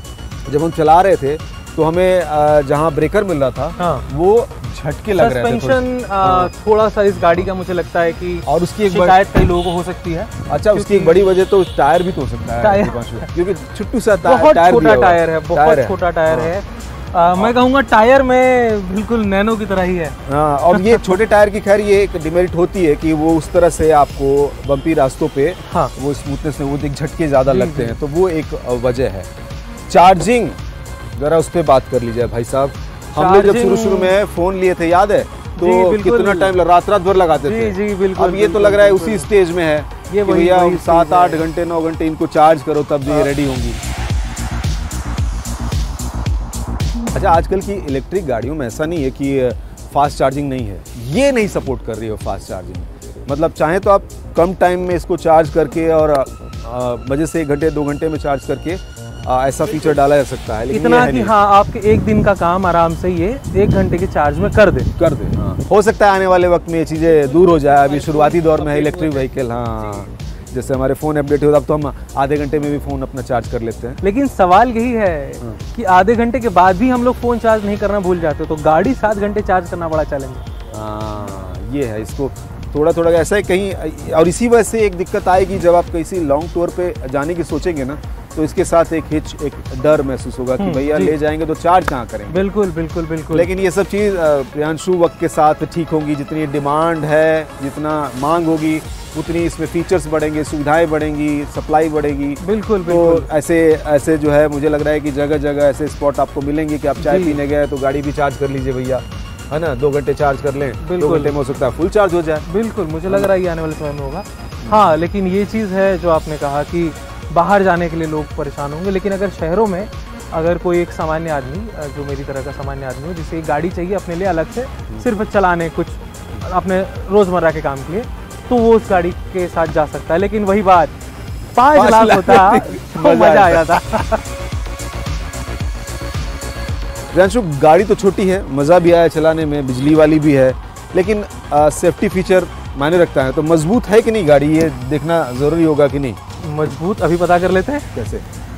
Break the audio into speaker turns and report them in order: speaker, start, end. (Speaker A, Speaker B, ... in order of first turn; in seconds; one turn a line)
Speaker A: 0.5-6.5
Speaker B: 3.8-4.0
Speaker B: 5.2-11.3
Speaker A: 8.5-9.2
Speaker A: 10.5-16.5
Speaker B: 12.6-13.3
Speaker B: 14.2-20.2
Speaker A: 20.3-29.3
Speaker B: 20.7-21.1
Speaker B: 25.6-25.9
Speaker B: 27.5-28.0
Speaker A: 29.9-30.6
Speaker A: 31.2-43.8
Speaker B: 33.1-34.1
Speaker B: 35.6-36.5
Speaker B: 37.4-39.3
Speaker B: 40.1-41.5
Speaker A: 47.1-61.3
Speaker B: 60.7-64.9
Speaker A: 65.0-74.0
Speaker B: 67.1-70.1
Speaker B: 74.0-80.5
Speaker A: 80.7-92.5
Speaker B: 90.6-91.2
Speaker B: 92.3-93.5
Speaker A: 93.3-112.5
Speaker B: 102.4-103.3
Speaker B: 107.0-107.4
Speaker B: 110.8-111.4
Speaker B: 112.4-130.9
Speaker A: 114.6-114.9
Speaker B: 131.5-134.2
Speaker A: 131.7-133.7
Speaker A: 137.1-146.2
Speaker B: 146.4-147.9
Speaker A: 147.9-148.3